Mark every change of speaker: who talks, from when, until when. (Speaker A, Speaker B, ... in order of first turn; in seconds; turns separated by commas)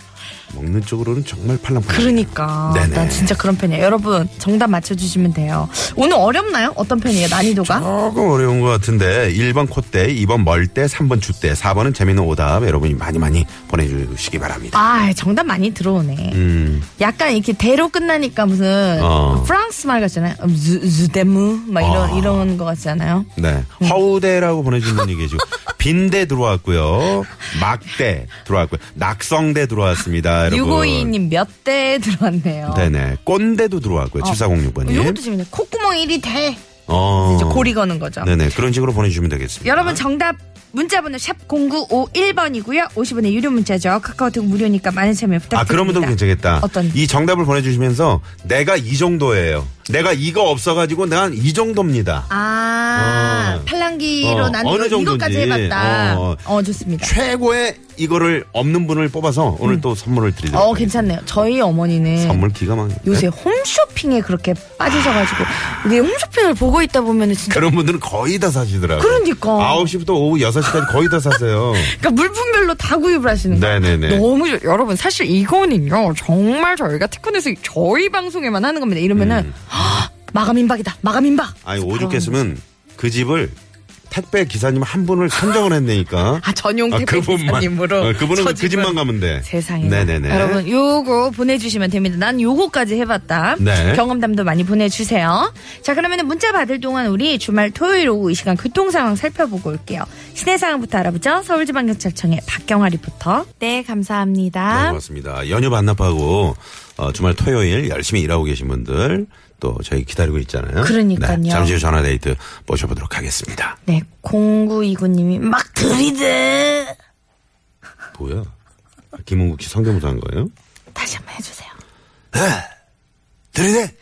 Speaker A: 0.5-3.4, Speaker B: 1.9-7.9, Speaker A: 7.6-14.8, Speaker B: 14.7-23.3, Speaker A: 16.3-16.9, Speaker A: 19.0-19.5, Speaker A: 21.8-22.5, Speaker A: 23.4-31.1, Speaker B: 30.5-32.9, Speaker A: 32.7-35.2, Speaker B: 34.2-36.6, Speaker A: 36.9-40.0, Speaker B: 37.2-38.3, Speaker B: 39.6-47.0, Speaker A: 45.5-52.3, Speaker B: 52.3-57.1, Speaker A: 52.9-53.7, Speaker A: 54.2-56.5, Speaker A: 57.0-61.4, Speaker B: 60.5-62.5, Speaker A: 62.2-63.3, Speaker B: 63.0-67.7, Speaker A: 65.0-65.5, Speaker A: 67.5-72.0, Speaker B: 69.0-69.9, Speaker B: 71.8-82.4, Speaker A: 73.5-74.3, Speaker A: 79.2-79.6, Speaker A: 81.6-83.6, Speaker A: 84.1-90.6, Speaker B: 86.4-105.0, Speaker A: 93.6-94.0, Speaker A: 104.7-113.8, Speaker B: 110.8-111.8, Speaker B: 113.9-117.0, Speaker A: 118.1-118.5, Speaker A: 119.2-120.5, Speaker B: 120.9-121.7, Speaker A: 122.3-122.7, Speaker A: 123.5-123.9